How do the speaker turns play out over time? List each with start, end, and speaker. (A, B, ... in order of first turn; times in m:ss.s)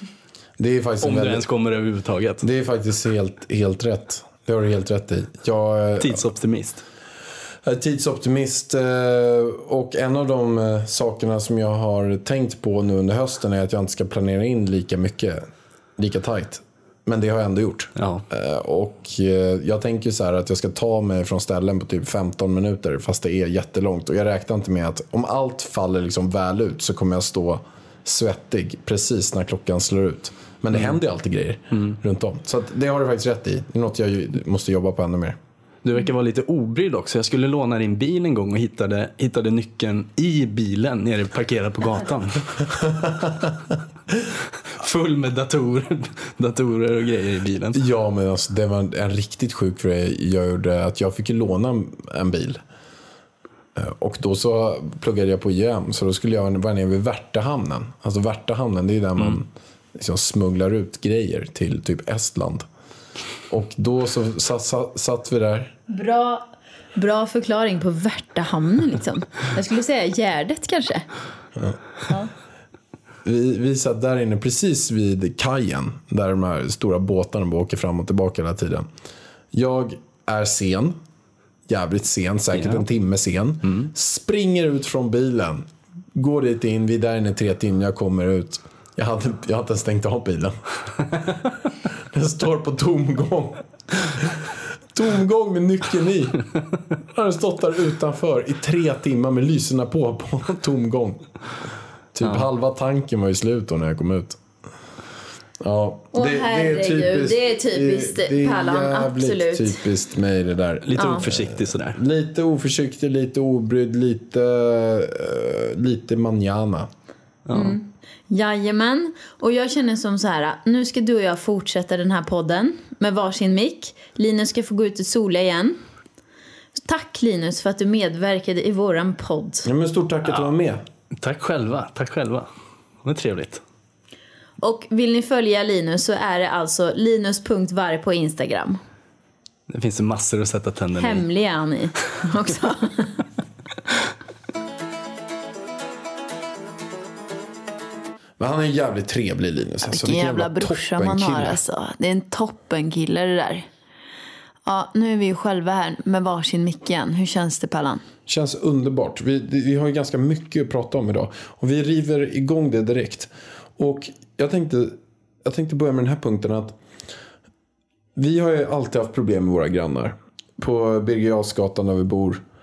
0:00.6-0:01.5 A
0:01.0-0:02.5 B
0:02.4-0:06.3 A
0:06.0-0:06.8 B
0:07.6-0:15.4 A
0:16.0-0:35.4 A
0:18.0-0:18.2 B
0:35.8-0:42.7 B
0:42.8-0:43.3 A
0:44.8-0:47.8 B
0:47.7-0:52.6 A
0:53.8-1:02.7 A
1:03.5-1:05.7 A
1:05.9-1:11.1 C
1:13.2-1:18.9 A
1:19.5-1:21.0 A
1:21.7-1:30.6 A
1:22.6-1:22.8 B
1:32.1-1:36.4 A
1:37.1-1:41.2 A
1:42.1-1:44.4 A
1:45.6-1:56.9 A
1:46.1-1:49.8 C
1:50.8-1:52.0 B
1:51.0-1:51.2 C
1:57.5-1:57.8 B
1:57.5-2:05.8 C
2:06.8-2:09.7 C
2:09.6-2:10.8 A
2:11.2-2:12.5 B
2:13.0-2:13.6 B
2:14.6-2:18.8 C
2:19.7-2:21.2 B
2:21.0-2:23.2 C
2:28.4-2:31.6 A
2:29.8-2:33.7 C
2:34.7-2:38.0 C
2:38.3-2:46.8 A
2:48.2-2:52.4 A